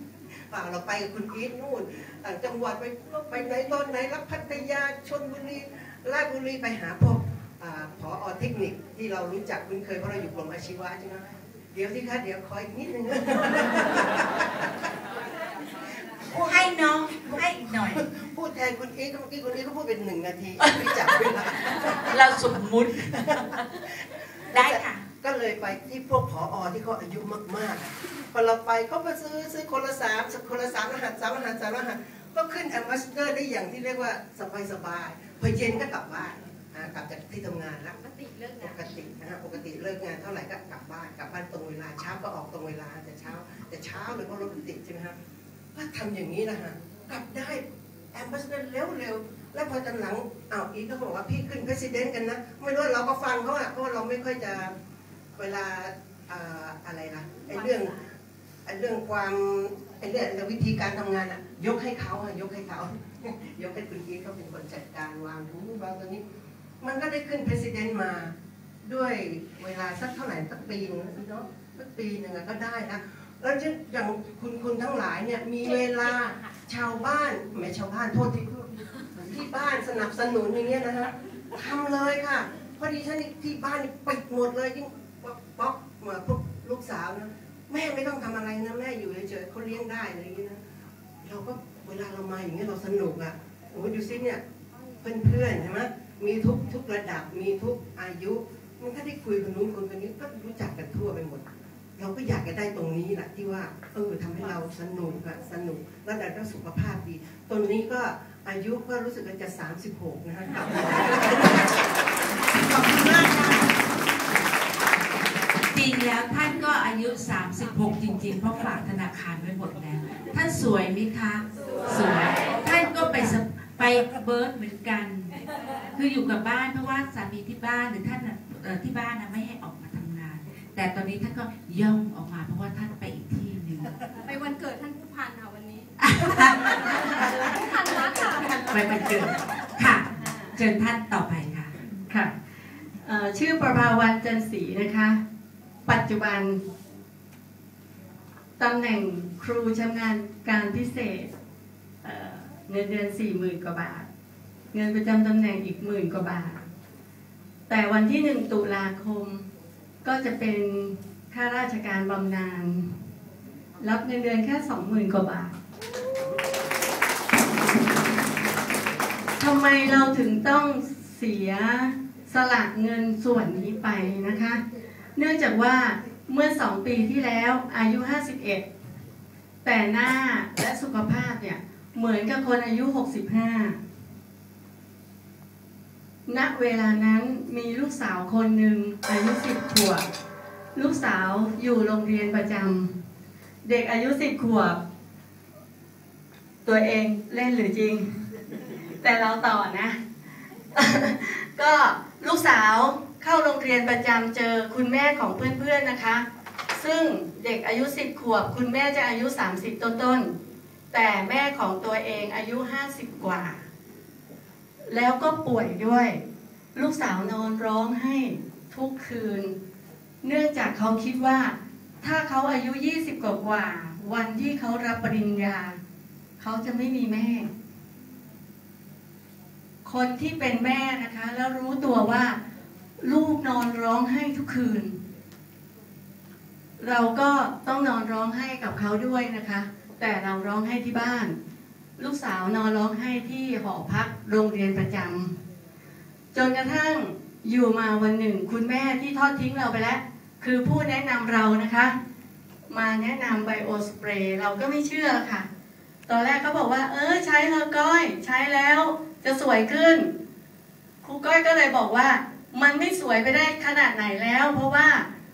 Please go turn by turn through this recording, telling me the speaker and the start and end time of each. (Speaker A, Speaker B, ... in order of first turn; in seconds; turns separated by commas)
Speaker A: 0.5-14.7, Speaker A: 16.3-22.2, Speaker B: 16.4-18.0, Speaker B: 20.6-23.9, Speaker A: 23.0-38.0, Speaker B: 24.5-25.1, Speaker C: 38.0-38.8, Speaker A: 38.6-45.1, Speaker A: 45.8-54.7, Speaker A: 55.4-58.1, Speaker A: 58.7-66.2, Speaker A: 66.8-90.6, Speaker A: 91.2-94.4, Speaker A: 95.0-101.5, Speaker A: 102.0-111.8, Speaker B: 112.6-113.7, Speaker B: 115.7-125.3, Speaker B: 125.9-134.0, Speaker C: 134.2-135.9, Speaker B: 136.1-137.5, Speaker C: 136.8-138.7, Speaker D: 138.5-139.1, Speaker B: 138.7-141.7, Speaker C: 140.1-140.5, Speaker D: 142.1-142.3, Speaker D: 143.0-145.2, Speaker D: 145.9-146.6, Speaker D: 148.6-151.3, Speaker D: 152.0-154.1, Speaker D: 154.7-156.6, Speaker D: 157.7-159.4, Speaker D: 160.0-162.9, Speaker D: 163.8-165.6, Speaker D: 169.4-174.6, Speaker D: 175.2-178.6, Speaker D: 179.6-183.8, Speaker D: 186.3-190.0, Speaker D: 190.8-192.9, Speaker D: 193.6-194.8, Speaker D: 196.7-198.1, Speaker D: 199.0-200.0, Speaker D: 200.8-206.2, Speaker D: 206.8-210.3, Speaker D: 210.9-213.6, Speaker D: 214.9-216.2, Speaker D: 216.8-219.5, Speaker D: 220.2-225.8, Speaker D: 226.4-227.5, Speaker D: 229.8-232.4, Speaker D: 233.0-235.0, Speaker D: 236.8-241.3, Speaker D: 242.0-245.3, Speaker D: 246.3-251.9, Speaker D: 252.7-255.5, Speaker D: 256.1-260.1, Speaker D: 261.0-265.1